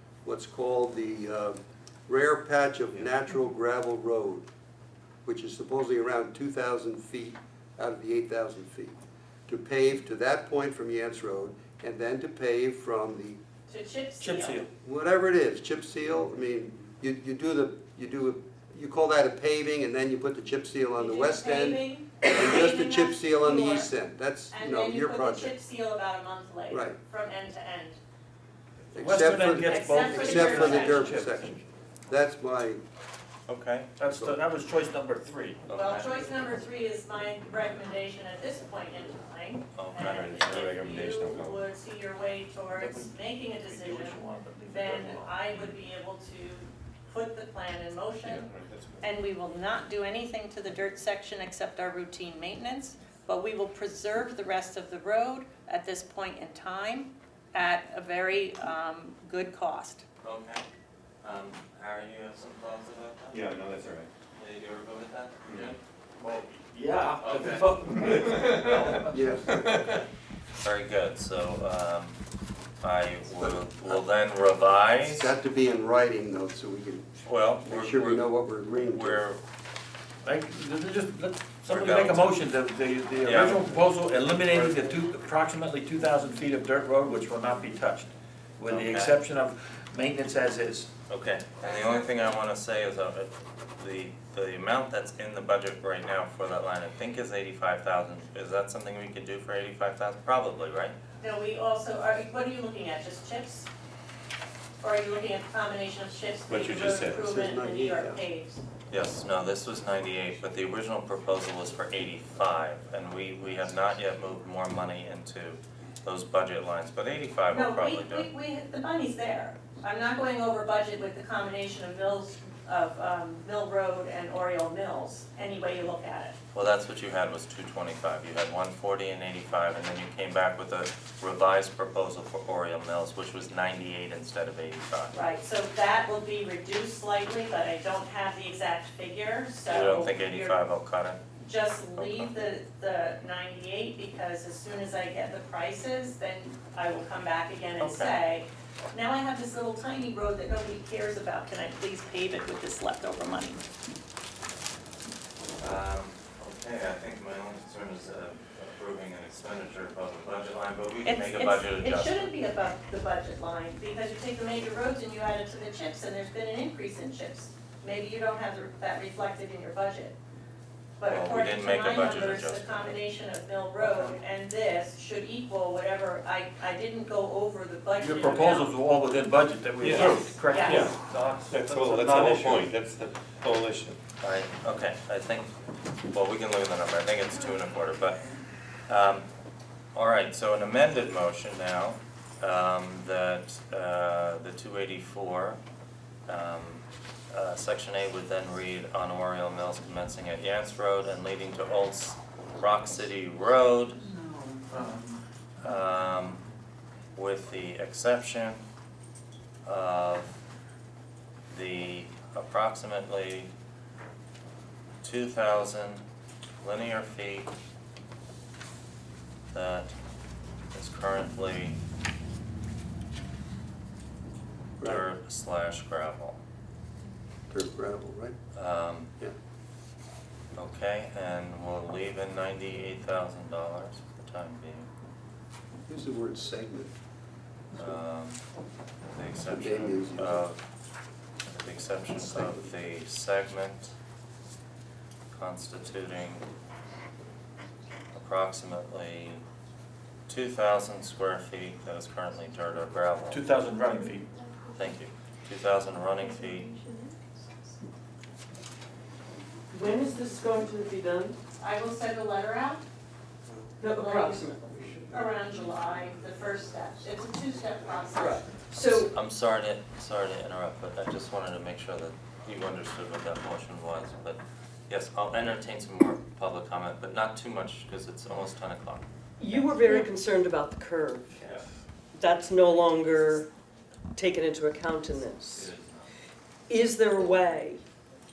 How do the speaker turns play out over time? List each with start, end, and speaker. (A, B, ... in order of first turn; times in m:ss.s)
0:00.2-0:04.5 A
0:05.2-0:09.0 A
0:09.5-0:13.4 A
0:13.7-0:14.6 B
0:14.2-0:14.7 C
0:14.8-0:25.5 A
0:21.0-0:23.9 B
0:24.5-0:28.0 B
0:26.7-0:27.0 A
0:28.9-0:32.8 A
0:29.0-0:31.5 C
0:29.6-0:31.1 B
0:33.5-0:33.9 D
0:34.0-0:35.7 C
0:34.1-0:34.4 A
0:35.7-0:36.4 D
0:35.7-1:00.0 B
0:39.7-0:40.8 D
0:40.1-0:41.6 E
0:42.7-0:45.3 C
0:48.2-0:49.0 E
1:00.2-1:00.7 D
1:01.2-1:03.4 D
1:03.3-1:04.1 E
1:04.4-1:05.8 D
1:05.5-1:05.7 E
1:06.2-1:09.6 C
1:07.2-1:07.8 D
1:08.0-1:09.0 E
1:09.1-1:09.6 A
1:10.6-1:12.2 D
1:12.8-1:15.3 D
1:13.4-1:14.0 A
1:15.0-1:19.2 A
1:17.2-1:18.2 D
1:18.8-1:19.4 D
1:20.2-1:30.9 C
1:21.6-1:22.4 D
1:23.2-1:23.8 D
1:28.7-1:29.2 D
1:31.1-1:41.0 D
1:41.2-1:43.7 B
1:44.8-1:48.6 B
1:46.5-1:47.2 E
1:46.9-1:48.2 A
1:48.9-1:58.3 D
1:57.5-2:06.4 B
2:06.5-2:15.2 D
2:15.1-2:20.6 B
2:19.7-2:21.2 D
2:21.4-2:33.6 B
2:22.0-2:22.3 D
2:27.8-2:28.2 D
2:35.6-2:42.3 D
2:41.0-2:50.2 B
2:51.0-2:58.8 B
2:51.1-2:53.0 D
2:58.0-3:02.7 C
2:59.8-3:01.0 E
2:59.9-3:00.9 B
3:01.5-3:04.0 E
3:04.2-3:05.5 D
3:06.1-3:08.2 D
3:08.9-3:09.3 D
3:09.9-3:15.6 D
3:16.3-3:24.0 D
3:24.7-3:25.2 C
3:25.6-3:26.4 D
3:27.2-3:28.6 D
3:29.6-3:30.4 D
3:31.5-3:33.5 D
3:35.0-3:36.0 D
3:36.6-3:37.5 D
3:39.5-3:40.0 D
3:40.7-3:41.8 D
3:44.8-3:46.4 D
3:47.5-3:48.4 A
3:48.5-3:49.1 D
3:50.6-3:54.9 D
3:55.9-3:56.9 A
3:57.8-3:58.4 D
3:59.1-4:00.6 D
3:59.5-4:00.5 A
4:01.4-4:03.9 D
4:02.2-4:02.8 A
4:05.3-4:06.5 D
4:08.1-4:09.4 D
4:10.3-4:13.5 D
4:13.3-4:14.3 C
4:14.7-4:16.8 D
4:16.6-4:17.0 B
4:19.7-4:21.4 F
4:21.6-4:22.9 B
4:23.8-4:25.1 F
4:23.9-4:24.6 B
4:24.6-4:25.9 A
4:25.1-4:28.5 B
4:28.2-4:29.1 F
4:28.9-4:39.7 D
4:39.4-4:41.3 F
4:41.4-4:41.7 D
4:42.1-4:43.5 F
4:44.2-4:45.7 F
4:45.4-4:46.1 D
4:46.7-4:47.8 F